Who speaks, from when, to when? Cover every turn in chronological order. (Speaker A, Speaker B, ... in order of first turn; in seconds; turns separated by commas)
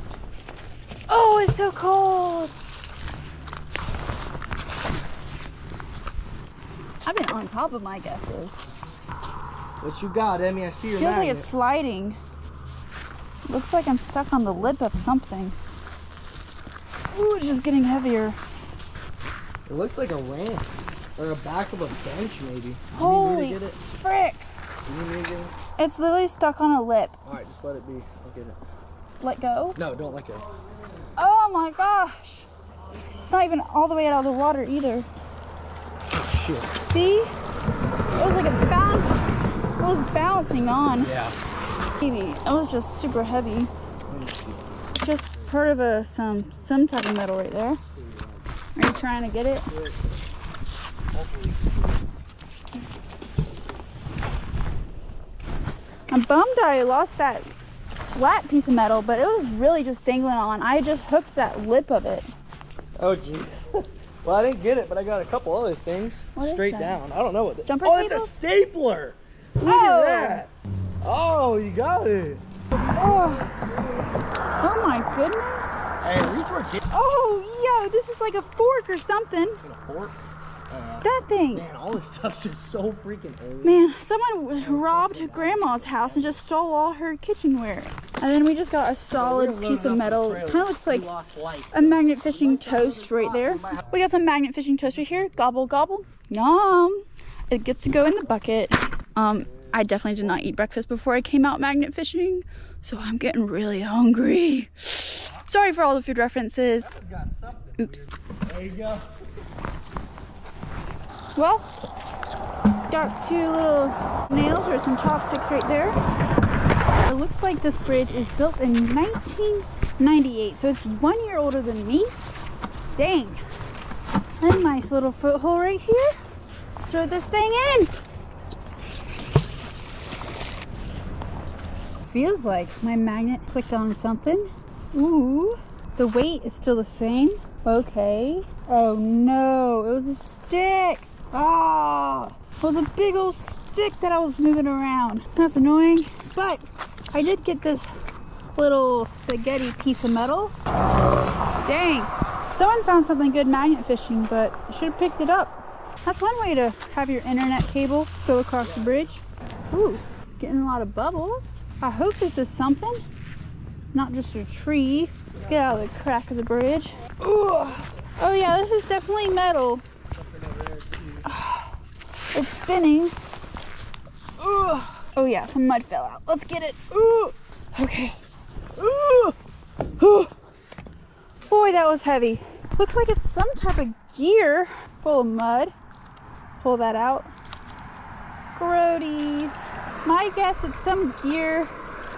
Speaker A: 1.1-2.5, Speaker A: 7.0-8.6, Speaker B: 9.8-11.5, Speaker A: 11.0-12.2, Speaker A: 13.5-15.6, Speaker A: 17.1-18.4, Speaker B: 19.6-23.8, Speaker A: 22.9-24.5, Speaker B: 24.9-25.5, Speaker A: 25.8-27.2, Speaker B: 27.2-28.6, Speaker A: 29.2-29.8, Speaker B: 29.8-30.5, Speaker A: 31.2-32.5, Speaker A: 33.2-35.1, Speaker B: 36.1-36.7, Speaker A: 36.8-37.3, Speaker A: 38.1-39.1, Speaker A: 39.8-41.1, Speaker B: 41.0-41.4, Speaker A: 42.0-43.7, Speaker B: 44.1-44.6, Speaker A: 45.0-47.8, Speaker B: 48.0-48.4, Speaker A: 48.8-49.7, Speaker B: 49.7-50.2, Speaker B: 51.1-52.0, Speaker A: 56.1-57.5, Speaker A: 58.1-62.3, Speaker B: 63.0-70.5, Speaker A: 66.3-67.0, Speaker A: 67.7-68.4, Speaker A: 69.6-70.4, Speaker B: 71.0-75.0, Speaker A: 73.0-73.5, Speaker A: 74.6-76.0, Speaker B: 76.0-76.8, Speaker A: 76.9-79.6, Speaker B: 79.6-83.9, Speaker A: 81.0-81.7, Speaker A: 83.6-91.1, Speaker B: 84.5-86.4, Speaker B: 89.2-94.1, Speaker A: 91.7-107.0, Speaker B: 106.8-109.2, Speaker A: 107.8-108.1, Speaker A: 111.4-111.7, Speaker A: 112.7-116.0, Speaker A: 117.0-122.1, Speaker A: 123.0-123.4, Speaker A: 124.4-126.2, Speaker A: 126.8-127.9, Speaker A: 132.1-147.9, Speaker A: 148.6-150.6, Speaker A: 151.6-163.0, Speaker B: 158.7-159.0, Speaker A: 163.9-169.8, Speaker B: 170.1-171.3, Speaker A: 171.2-171.8, Speaker A: 172.3-173.1, Speaker A: 174.4-178.2, Speaker A: 178.8-179.4, Speaker A: 180.0-180.3, Speaker A: 181.5-185.7, Speaker A: 186.6-187.3, Speaker A: 188.5-191.7